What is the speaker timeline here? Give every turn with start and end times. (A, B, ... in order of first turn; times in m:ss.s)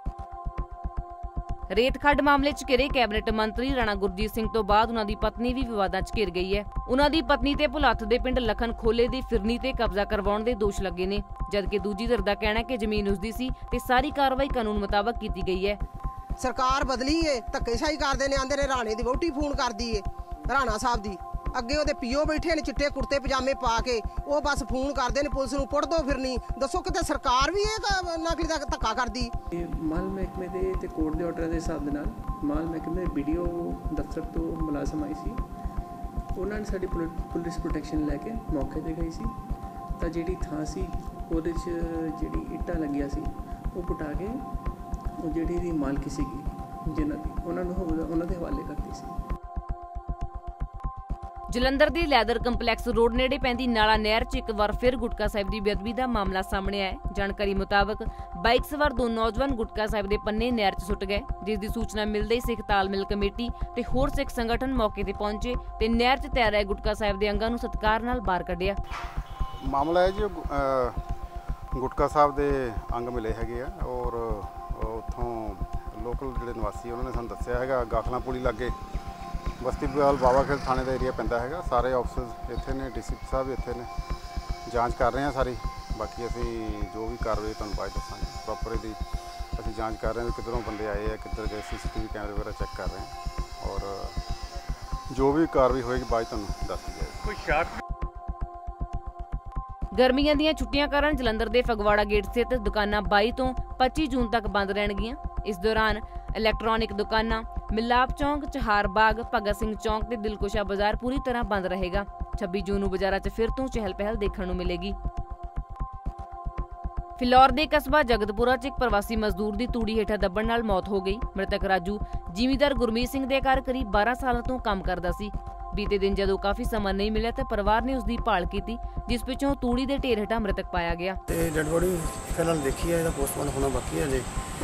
0:01.7-0:15.8 A
0:16.4-0:29.3 B
0:29.5-0:35.4 C
0:36.4-0:39.4 C
0:40.0-0:44.5 C
0:45.2-0:49.2 C
0:51.5-1:08.8 A
1:09.6-1:11.0 D
1:11.7-1:18.8 D
1:19.6-1:23.9 D
1:24.7-1:29.0 D
1:29.6-1:34.2 D
1:35.1-1:37.4 D
1:39.9-1:55.0 A
1:57.2-2:11.2 A
2:11.3-2:14.3 E